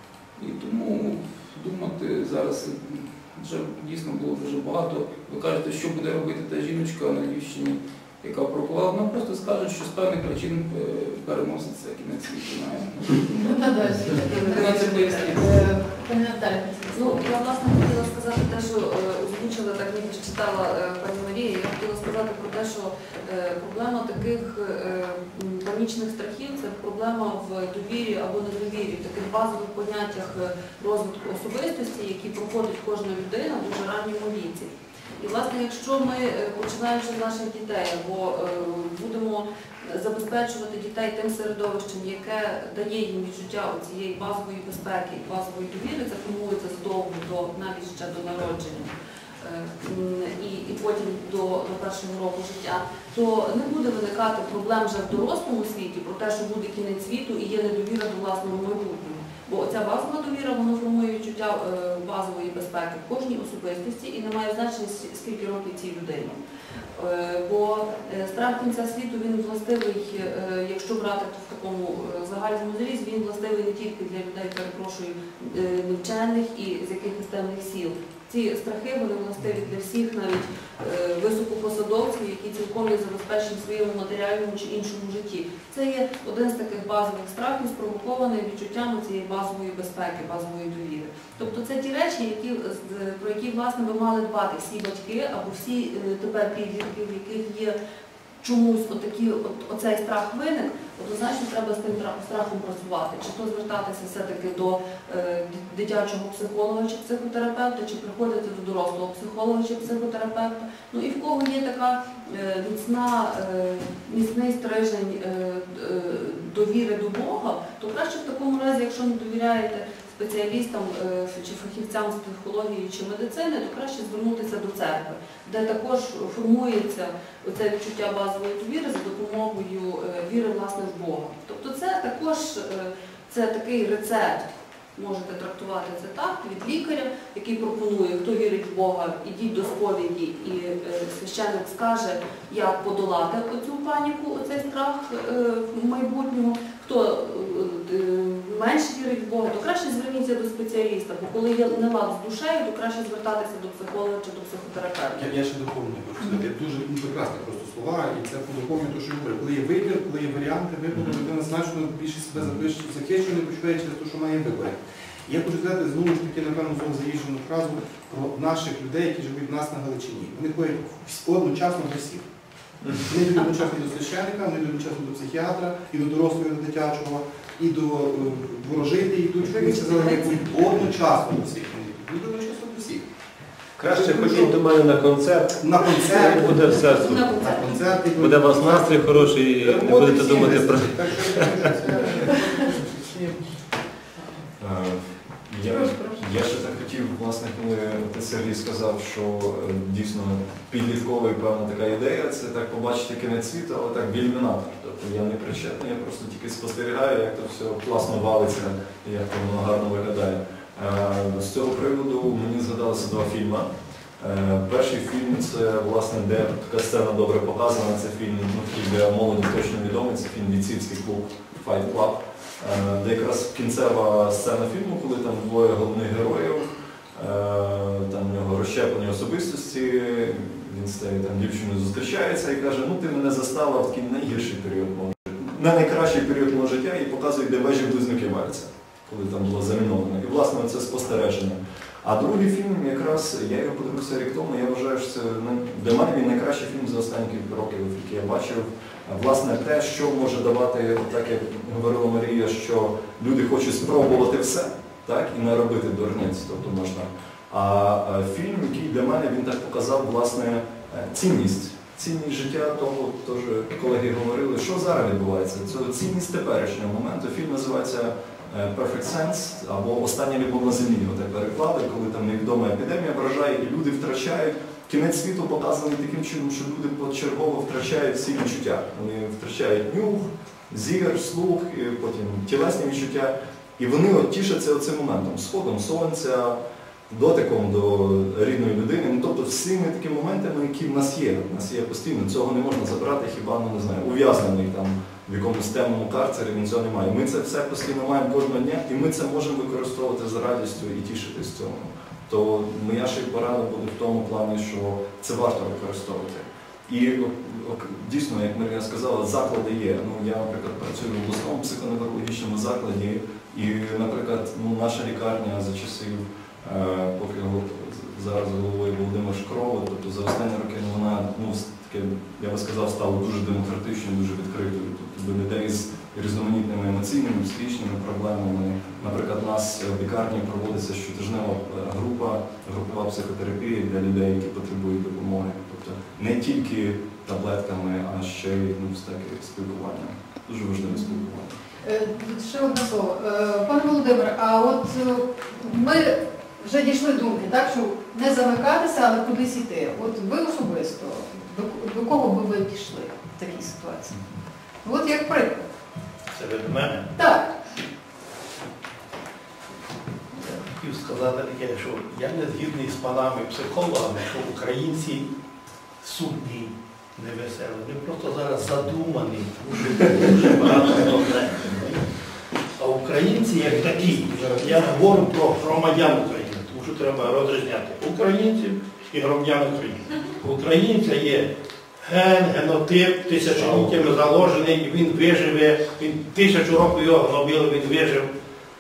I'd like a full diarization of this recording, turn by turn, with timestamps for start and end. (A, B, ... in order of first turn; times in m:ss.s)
0:00.4-0:13.3 A
0:13.3-0:17.4 B
0:14.3-0:15.4 C
0:14.3-0:15.7 A
0:16.9-1:06.4 C
1:07.0-1:37.8 C
1:38.4-2:35.3 C
2:35.2-2:52.3 D
2:53.0-3:03.1 D
3:03.8-3:04.6 D
3:03.8-3:07.2 E
3:05.6-3:13.4 D
3:06.9-3:07.8 C
3:08.2-3:11.6 E
3:14.6-4:46.6 F
3:15.6-3:16.2 B
4:47.1-5:41.6 F
5:41.8-5:54.2 B
5:54.8-5:55.6 B
5:56.3-5:57.1 G
5:57.2-5:57.5 B
6:00.3-6:05.3 G
6:06.0-6:12.0 G
6:12.8-6:28.3 G
6:13.6-6:14.9 D